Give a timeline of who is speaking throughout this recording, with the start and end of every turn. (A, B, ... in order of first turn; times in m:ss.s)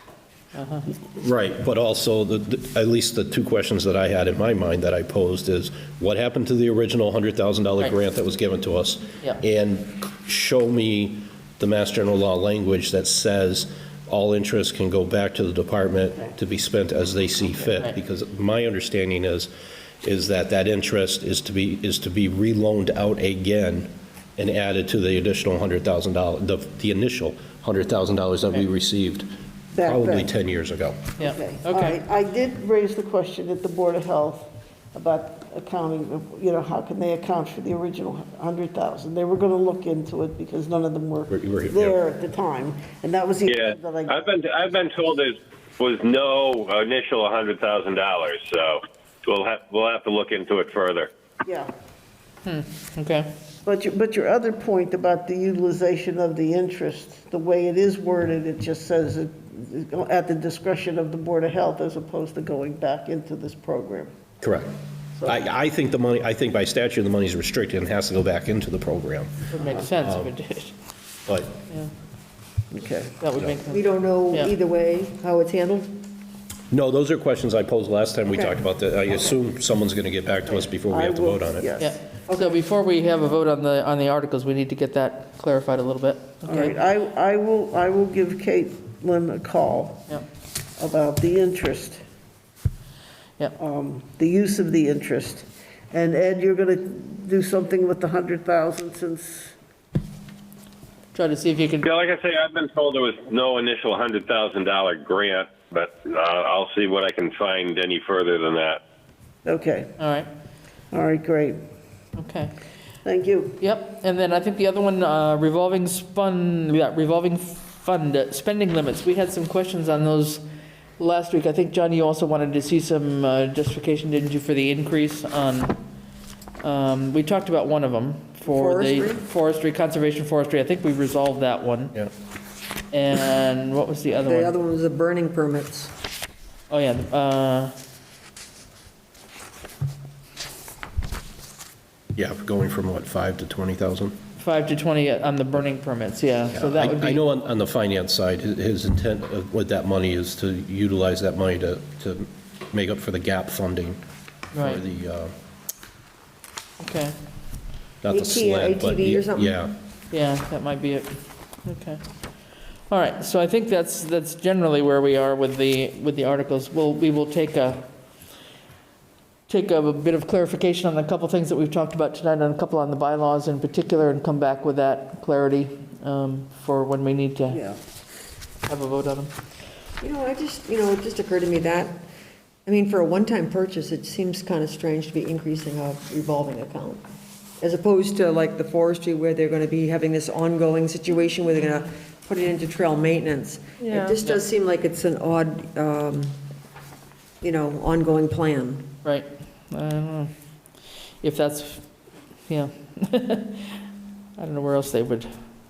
0:00.5-0:00.8 A
0:01.1-0:19.5 B
0:20.0-0:31.1 B
0:29.7-0:30.3 C
0:31.2-0:32.0 A
0:31.2-0:44.2 C
0:41.3-0:42.0 B
0:43.5-0:51.1 D
0:51.4-0:51.7 C
0:52.4-0:53.3 A
0:53.6-1:04.1 C
1:04.4-1:10.3 B
1:09.5-1:10.8 A
1:11.3-1:11.6 B
1:12.7-1:13.2 C
1:13.2-1:14.5 A
1:13.7-1:16.0 E
1:16.7-1:21.7 B
1:18.3-1:18.6 E
1:20.9-1:22.0 C
1:21.8-1:26.7 A
1:22.3-1:22.6 E
1:26.4-1:30.1 C
1:30.8-1:32.0 C
1:33.6-1:39.6 C
1:41.1-1:41.8 A
1:41.8-1:48.8 D
1:49.4-1:49.9 C
1:50.0-1:50.3 A
1:50.9-1:51.6 C
1:52.2-1:52.5 A
1:53.0-1:53.6 C
1:53.6-2:00.4 A
2:01.0-2:05.8 A
2:06.6-2:12.0 A
2:08.4-2:09.2 E
2:12.9-2:14.5 A
2:14.2-2:15.9 E
2:16.7-2:17.7 A
2:22.2-2:24.2 B
2:24.4-2:27.2 A
2:26.5-2:34.0 B
2:34.5-2:34.8 A
2:34.6-2:35.3 B
2:36.8-2:37.1 A
2:38.0-2:39.8 B
2:38.1-2:39.6 E
2:40.1-2:42.0 A
2:42.9-2:47.8 A
2:49.5-2:57.6 A
2:57.5-2:57.8 C
2:58.7-2:59.3 A
3:00.0-3:02.0 E
3:02.6-3:07.0 E
3:07.6-3:16.4 E
3:17.4-3:18.9 E
3:19.0-3:20.3 A
3:21.2-3:21.8 A
3:22.5-3:23.8 A
3:24.4-3:25.3 A